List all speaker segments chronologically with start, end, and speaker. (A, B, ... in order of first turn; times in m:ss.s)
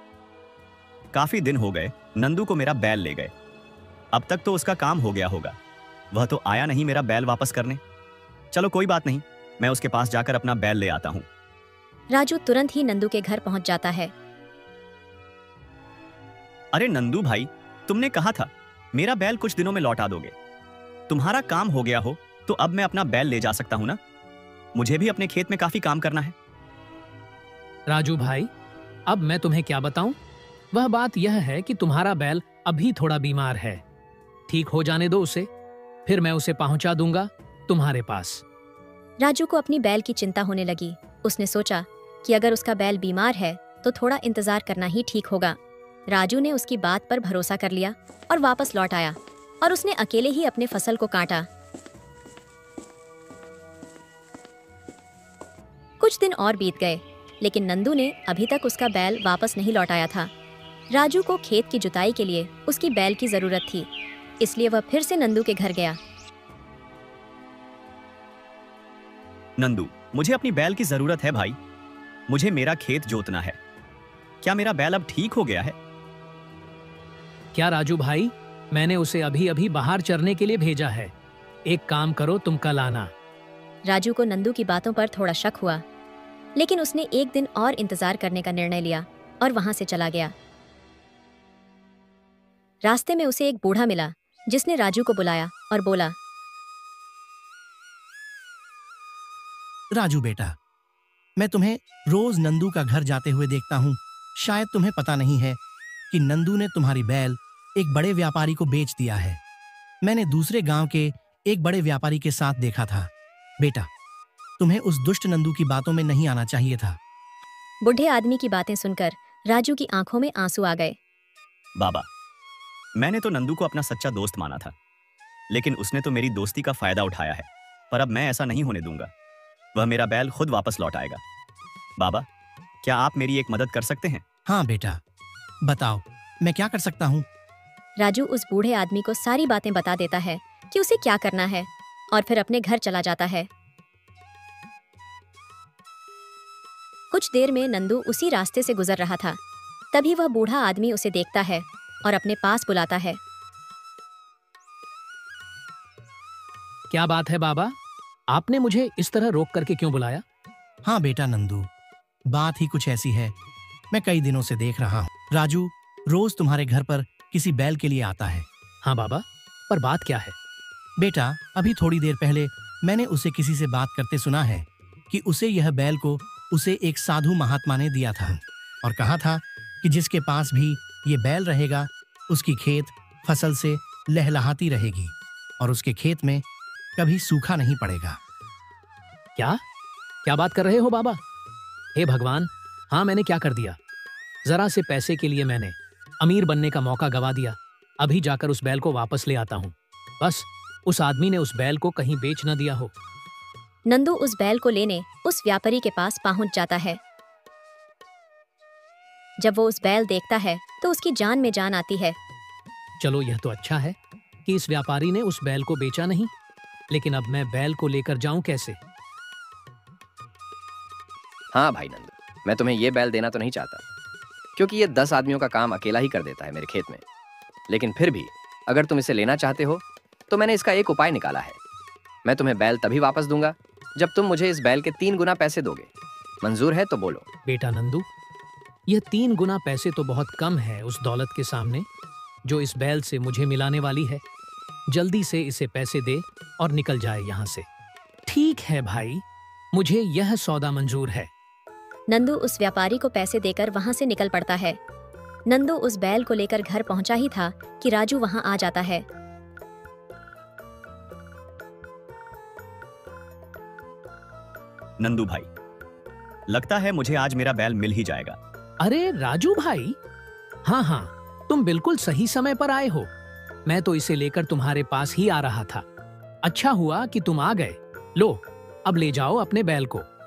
0:01.1-0:03.3 A
0:04.1-0:05.6 A
0:06.1-0:07.8 A
0:08.5-0:11.2 A
0:12.1-0:14.1 B
0:16.7-0:20.3 A
0:21.1-0:24.0 A
0:24.7-0:26.4 A
0:27.9-0:28.5 C
0:29.1-0:30.2 C
0:30.7-0:33.8 C
0:34.5-0:35.5 C
0:36.0-0:38.4 C
0:39.2-0:45.6 B
0:46.1-0:51.5 B
0:56.0-1:00.3 B
1:00.9-1:03.9 B
1:04.4-1:06.0 B
1:09.6-1:11.6 A
1:12.3-1:13.6 A
1:14.4-1:15.8 A
1:17.5-1:21.1 C
1:21.7-1:23.1 C
1:23.9-1:25.8 B
1:26.6-1:30.3 B
1:32.8-1:36.1 B
1:39.9-1:40.5 D
1:41.4-1:45.6 D
1:46.1-1:49.4 D
1:50.0-1:53.9 D
1:54.6-1:57.0 D
1:57.8-2:01.0 B
2:01.8-2:02.0 A
2:03.0-2:04.7 A
2:05.5-2:09.1 A
2:09.7-2:11.2 A
2:12.0-2:12.2 A
2:12.8-2:14.2 A
2:14.5-2:15.0 D
2:15.6-2:17.2 D
2:18.0-2:23.5 B
2:27.1-2:29.4 B
2:29.9-2:33.2 B
2:36.9-2:37.7 C
2:38.3-2:40.2 C
2:40.9-2:41.7 D
2:42.3-2:43.3 D
2:43.9-2:48.4 D
2:48.8-2:50.4 C
2:51.0-3:06.4 D
3:07.0-3:08.2 D
3:10.2-3:11.2 C
3:12.0-3:13.8 C
3:14.4-3:22.9 C
3:23.9-3:27.0 B
3:29.4-3:32.2 B
3:33.0-3:36.3 C
3:36.9-3:38.8 C
3:41.5-3:43.8 E
3:44.6-3:47.0 E
3:47.7-3:51.6 E
3:52.2-3:55.9 E
3:56.4-3:57.3 E
3:57.4-3:58.1 C
3:58.9-4:01.9 C
4:02.4-4:04.2 C
4:04.9-4:07.6 C
4:08.3-4:11.3 C
4:12.1-4:14.8 B
4:15.5-4:19.0 B
4:25.0-4:25.5 A
4:26.5-4:28.4 A
4:28.8-4:30.0 C
4:30.6-4:33.1 C
4:33.7-4:35.8 C
4:36.4-4:40.0 C